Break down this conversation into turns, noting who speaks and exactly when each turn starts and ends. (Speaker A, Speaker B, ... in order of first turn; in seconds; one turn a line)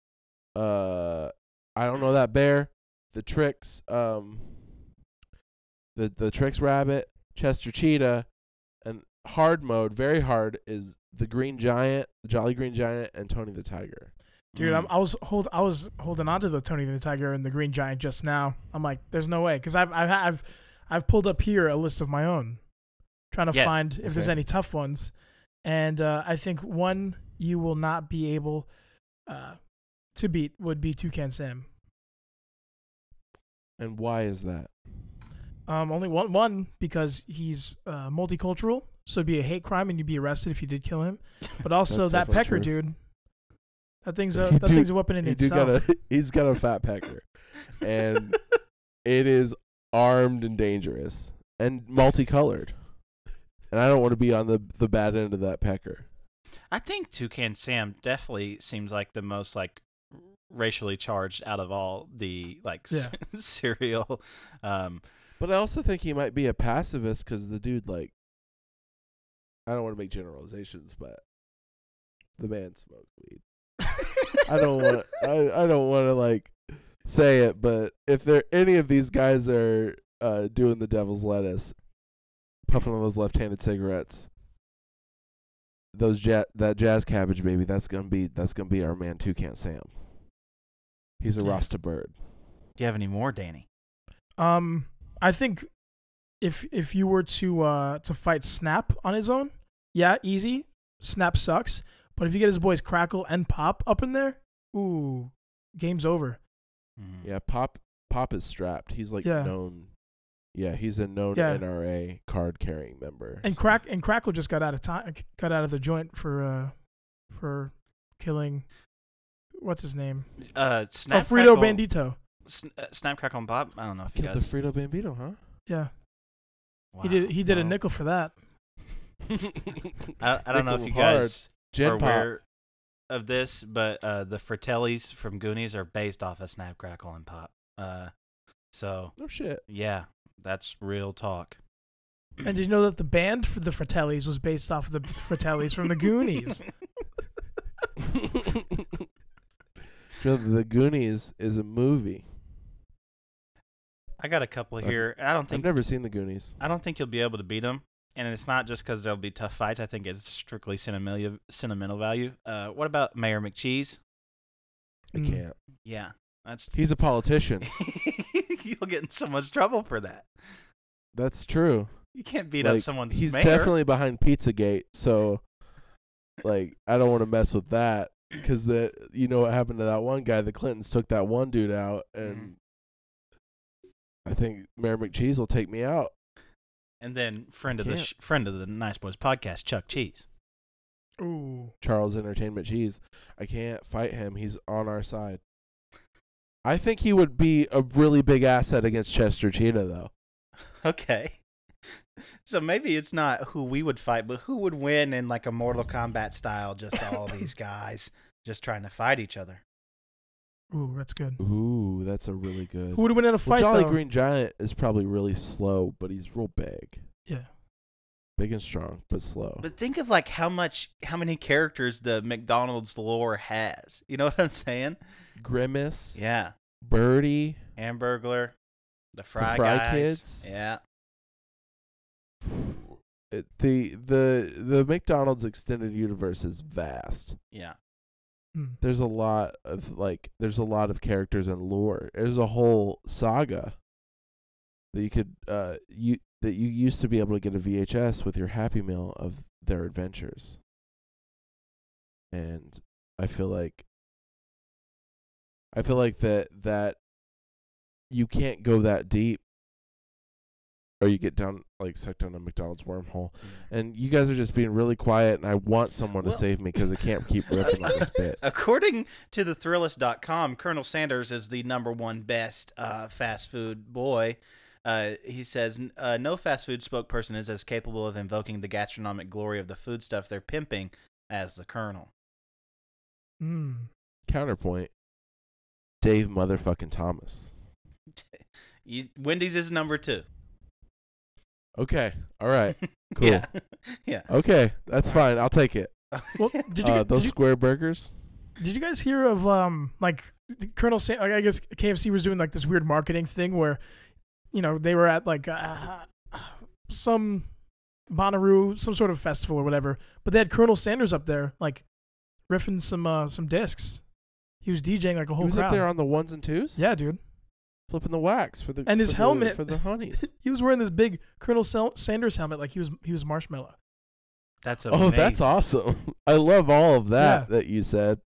Speaker A: 0.5-4.7
Speaker A: 6.0-8.3
Speaker A: 8.8-14.1
Speaker B: 14.5-14.9
Speaker C: 14.6-22.6
Speaker C: 23.3-25.1
Speaker A: 24.0-24.4
Speaker C: 25.6-28.7
Speaker C: 29.3-29.6
Speaker C: 30.1-31.6
Speaker A: 33.8-34.7
Speaker C: 35.7-43.0
Speaker A: 41.9-42.7
Speaker C: 44.0-45.8
Speaker A: 44.3-48.4
Speaker A: 49.0-52.7
Speaker A: 53.7-56.1
Speaker B: 56.7-59.8
Speaker B: 60.5-65.0
Speaker A: 65.4-68.1
Speaker A: 69.7-71.2
Speaker A: 72.4-73.4
Speaker A: 74.5-81.8
Speaker A: 82.7-84.3
Speaker A: 85.9-89.9
Speaker A: 91.2-92.2
Speaker B: 92.8-93.7
Speaker C: 94.4-95.7
Speaker C: 96.4-106.4
Speaker B: 107.0-107.3
Speaker A: 107.2-109.9
Speaker C: 109.2-109.5
Speaker A: 110.5-113.5
Speaker C: 111.3-111.6
Speaker C: 113.4-116.8
Speaker C: 117.3-118.7
Speaker C: 119.6-120.3
Speaker B: 120.5-121.8
Speaker C: 121.1-122.2
Speaker B: 122.5-124.5
Speaker A: 124.1-125.4
Speaker B: 126.9-127.8
Speaker C: 127.0-128.3
Speaker A: 129.3-132.3
Speaker B: 130.2-132.4
Speaker B: 133.1-138.1
Speaker B: 138.7-139.1
Speaker A: 139.2-139.6
Speaker B: 139.7-141.6
Speaker C: 142.4-146.6
Speaker A: 148.0-149.0
Speaker A: 150.2-152.2
Speaker B: 154.2-155.8
Speaker A: 154.8-156.6
Speaker B: 156.6-164.0
Speaker A: 165.1-165.6
Speaker C: 165.1-165.4
Speaker B: 165.8-166.8
Speaker A: 166.7-167.7
Speaker B: 167.6-170.3
Speaker A: 171.1-171.9
Speaker B: 172.1-173.8
Speaker A: 172.6-175.4
Speaker A: 176.4-182.6
Speaker B: 182.2-182.5
Speaker A: 184.2-186.1
Speaker B: 187.0-190.2
Speaker A: 187.7-188.1
Speaker C: 191.2-191.7
Speaker A: 191.8-195.4
Speaker A: 196.6-200.1
Speaker B: 200.8-201.3
Speaker B: 202.2-209.6
Speaker C: 210.7-211.4
Speaker A: 211.4-217.0
Speaker C: 212.9-214.0
Speaker A: 218.4-219.6
Speaker B: 219.6-225.0
Speaker A: 225.4-226.2
Speaker B: 226.2-226.5
Speaker A: 226.8-227.6
Speaker B: 227.8-228.5
Speaker B: 229.1-230.8
Speaker A: 229.4-230.5
Speaker A: 232.4-237.4
Speaker A: 238.8-243.8
Speaker A: 244.9-250.6
Speaker A: 252.3-253.8
Speaker A: 255.7-257.0
Speaker A: 258.1-259.4
Speaker A: 261.0-268.4
Speaker B: 267.5-282.1
Speaker C: 283.4-283.9
Speaker A: 284.3-284.9
Speaker A: 286.0-287.5
Speaker B: 288.9-290.2
Speaker A: 291.8-293.5
Speaker B: 293.2-294.3
Speaker A: 294.3-295.9
Speaker B: 296.1-296.7
Speaker C: 296.4-297.4
Speaker A: 296.8-298.1
Speaker C: 298.6-303.8
Speaker C: 304.5-307.5
Speaker C: 308.1-311.8
Speaker C: 312.5-314.0
Speaker C: 314.6-315.9
Speaker A: 315.4-316.8
Speaker C: 316.8-317.2
Speaker A: 317.9-320.2
Speaker C: 318.9-323.8
Speaker B: 324.6-325.5
Speaker A: 324.9-328.2
Speaker C: 327.2-327.5